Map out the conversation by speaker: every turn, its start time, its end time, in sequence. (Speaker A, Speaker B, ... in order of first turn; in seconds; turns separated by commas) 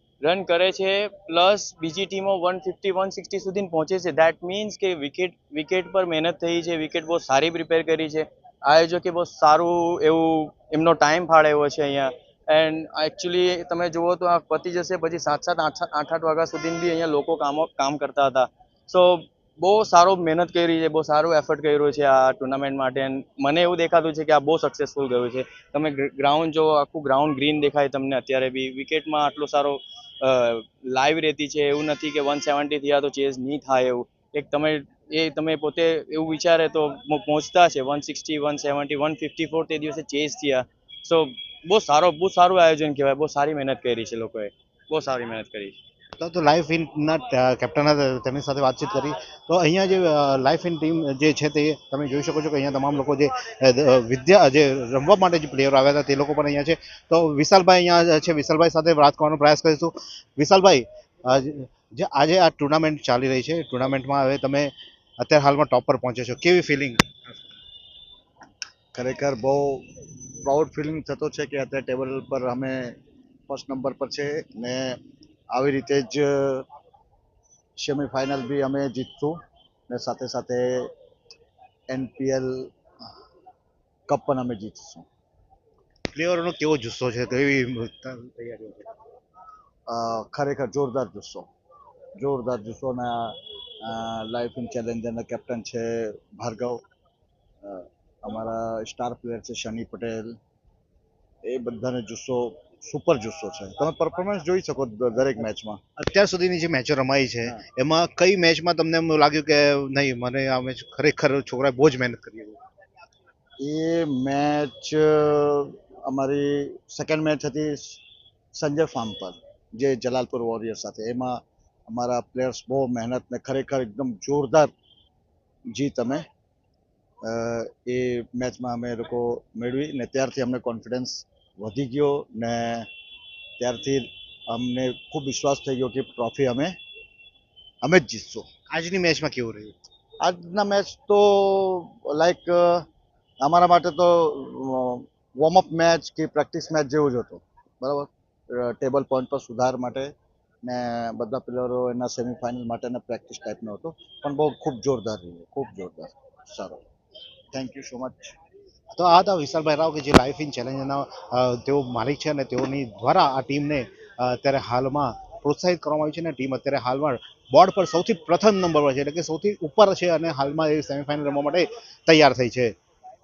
Speaker A: 0.2-45.8, Speaker B: 46.2-67.1, Speaker C: 68.9-73.0, Speaker C: 73.5-75.0, Speaker C: 75.5-76.6, Speaker C: 77.8-80.9, Speaker C: 81.9-82.7, Speaker C: 84.1-85.0, Speaker B: 86.1-88.9, Speaker C: 89.9-91.5, Speaker C: 92.2-96.8, Speaker C: 97.6-100.4, Speaker C: 101.4-105.8, Speaker B: 106.0-112.6, Speaker C: 113.6-118.0, Speaker C: 118.5-124.7, Speaker C: 125.7-126.2, Speaker C: 127.2-132.9, Speaker C: 133.6-136.7, Speaker C: 137.8-138.5, Speaker B: 138.7-139.7, Speaker C: 140.2-142.8, Speaker C: 143.4-156.8, Speaker C: 157.5-158.3, Speaker B: 158.9-172.7